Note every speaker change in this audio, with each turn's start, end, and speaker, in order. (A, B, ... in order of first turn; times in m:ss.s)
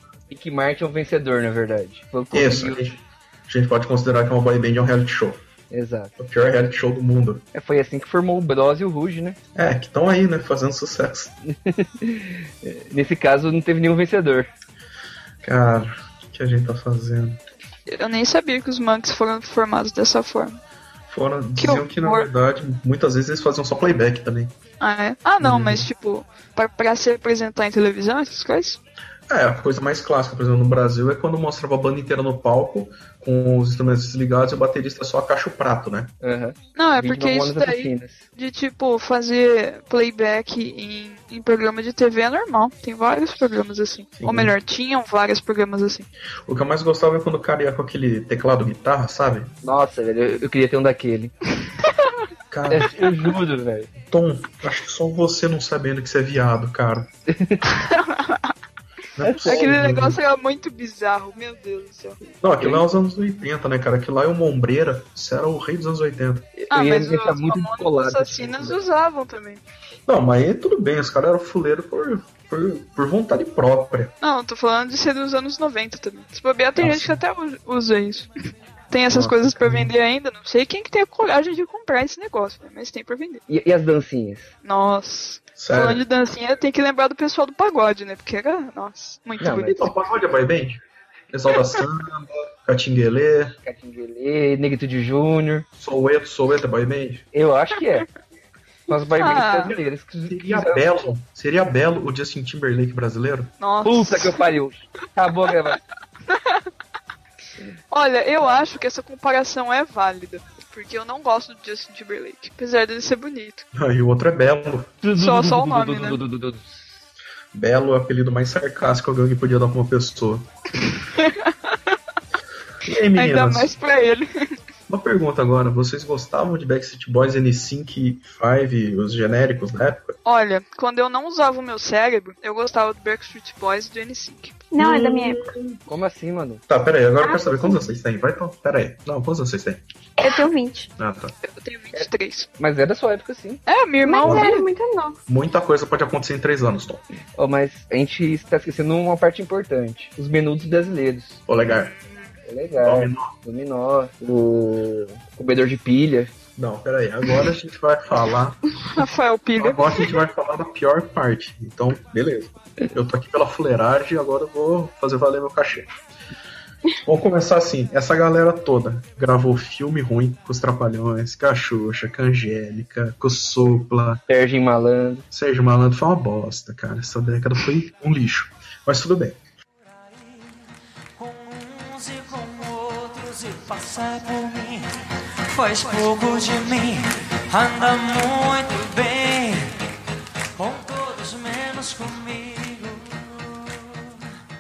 0:00.3-0:03.0 A
0:02.3-0:05.4 B
0:05.7-0:06.2 A
0:06.2-0:07.4 B
0:07.5-0:09.4 A
0:09.6-0:11.4 B
0:11.5-0:14.5 A
0:15.4-0:17.4 B
0:17.9-0:20.6 C
0:21.1-0:24.5 B
0:21.6-0:22.3 C
0:24.8-0:28.8 C
0:25.4-0:25.9 B
0:29.3-0:36.1 B
0:36.2-0:38.2 A
0:36.8-0:46.1 C
0:44.2-0:44.5 B
0:46.5-0:49.5 B
0:49.6-0:51.3 A
0:51.8-0:52.1 C
0:52.5-0:53.0 B
0:52.7-0:53.9 A
0:54.0-0:57.1 B
0:57.3-0:57.7 A
0:57.7-0:58.5 C
0:59.2-1:00.2 B
0:59.2-0:59.8 A
0:59.4-1:02.2 C
1:02.4-1:06.5 B
1:02.6-1:02.9 A
1:06.6-1:08.8 A
1:06.7-1:09.6 C
1:10.1-1:14.1 B
1:14.2-1:18.3 C
1:16.8-1:17.2 B
1:18.9-1:23.4 C
1:19.1-1:19.9 B
1:23.5-1:24.5 A
1:24.6-1:30.0 C
1:25.6-1:26.0 B
1:29.4-1:29.9 A
1:29.6-1:33.6 B
1:33.6-1:35.7 A
1:35.8-1:37.2 B
1:37.3-1:38.1 A
1:38.9-1:40.9 A
1:39.2-1:39.8 C
1:40.3-1:43.5 B
1:43.6-1:44.4 C
1:43.8-1:45.8 A
1:46.3-1:46.6 C
1:47.9-1:53.7 C
1:53.7-1:55.0 B
1:55.0-1:56.8 A
1:55.2-1:56.2 C
1:57.5-2:00.5 B
2:00.8-2:01.8 C
2:02.8-2:03.8 B
2:03.2-2:04.5 C
2:04.9-2:10.2 B
2:10.3-2:14.6 C
2:14.7-2:15.5 D
2:14.8-2:15.8 B
2:15.9-2:16.6 A
2:16.7-2:19.8 B
2:17.2-2:17.8 D
2:20.2-2:20.9 D
2:21.0-2:21.3 B
2:21.4-2:22.5 C
2:21.9-2:23.6 A
2:23.7-2:24.7 C
2:24.0-2:25.2 D
2:24.2-2:24.5 B
2:25.3-2:27.0 B
2:27.4-2:31.4 A
2:31.5-2:32.0 B
2:32.5-2:36.3 A
2:32.8-2:33.3 B
2:36.6-2:39.0 B
2:38.8-2:40.2 C
2:39.6-2:45.9 B
2:47.0-2:54.2 B
2:54.3-2:55.3 A
2:55.3-2:59.4 B
3:01.2-3:04.9 E
3:05.5-3:09.8 E
3:10.6-3:13.8 E